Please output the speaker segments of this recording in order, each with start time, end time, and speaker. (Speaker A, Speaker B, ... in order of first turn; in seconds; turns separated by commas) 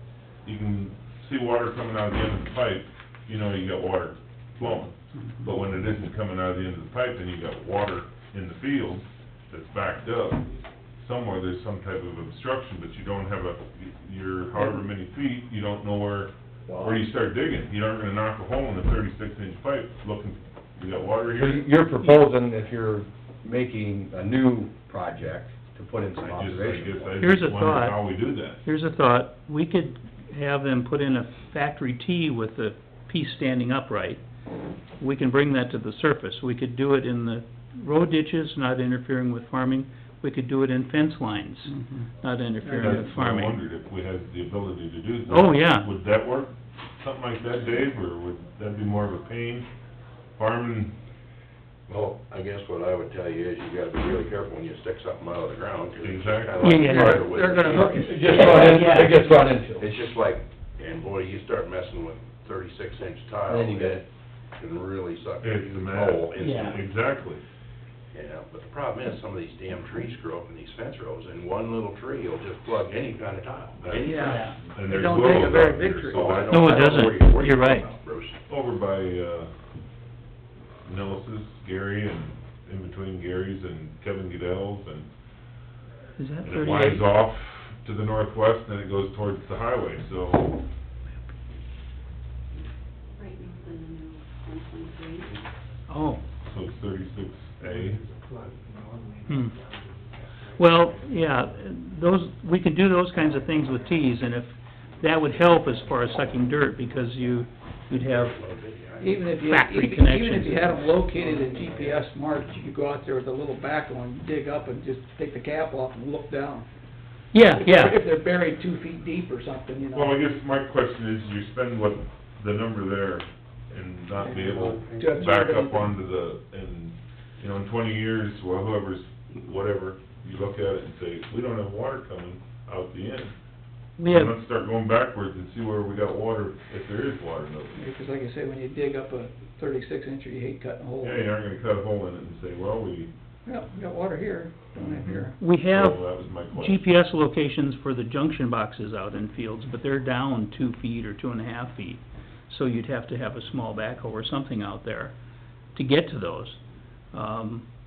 Speaker A: 0.4-10.4, Speaker A: 11.0-21.7, Speaker B: 16.6-17.1, Speaker B: 21.3-27.1, Speaker A: 26.2-28.6, Speaker C: 27.2-28.1, Speaker C: 28.6-34.2, Speaker C: 35.0-43.6, Speaker D: 41.6-42.1, Speaker D: 42.6-43.0, Speaker A: 42.8-49.7, Speaker C: 45.3-45.9, Speaker A: 50.4-50.9, Speaker E: 51.9-64.0, Speaker A: 56.0-56.9, Speaker C: 56.6-59.2, Speaker D: 56.8-58.9, Speaker B: 57.7-60.0, Speaker B: 63.5-64.0, Speaker E: 64.6-66.9, Speaker A: 65.4-67.4, Speaker C: 66.4-66.8, Speaker E: 68.1-74.6, Speaker A: 73.8-76.6, Speaker D: 74.0-76.5, Speaker C: 74.1-74.5, Speaker E: 76.1-78.4, Speaker C: 76.5-77.9, Speaker A: 78.5-79.5, Speaker A: 80.8-85.1, Speaker C: 86.2-87.0, Speaker A: 86.4-90.6, Speaker F: 93.2-95.4, Speaker C: 95.9-96.2, Speaker A: 96.4-98.0, Speaker F: 98.1-98.4, Speaker C: 99.3-99.5, Speaker C: 100.5-108.4, Speaker F: 100.8-101.4, Speaker E: 107.9-109.4, Speaker D: 109.0-116.7, Speaker C: 109.4-110.9, Speaker C: 117.3-118.0, Speaker D: 117.5-120.2, Speaker A: 119.9-133.3, Speaker D: 124.2-125.9, Speaker C: 134.0-134.3, Speaker A: 134.0-137.8, Speaker D: 137.7-141.3, Speaker A: 141.0-143.1, Speaker D: 143.4-145.3, Speaker C: 145.4-155.1, Speaker A: 145.7-146.8, Speaker C: 155.7-156.6, Speaker C: 157.1-157.7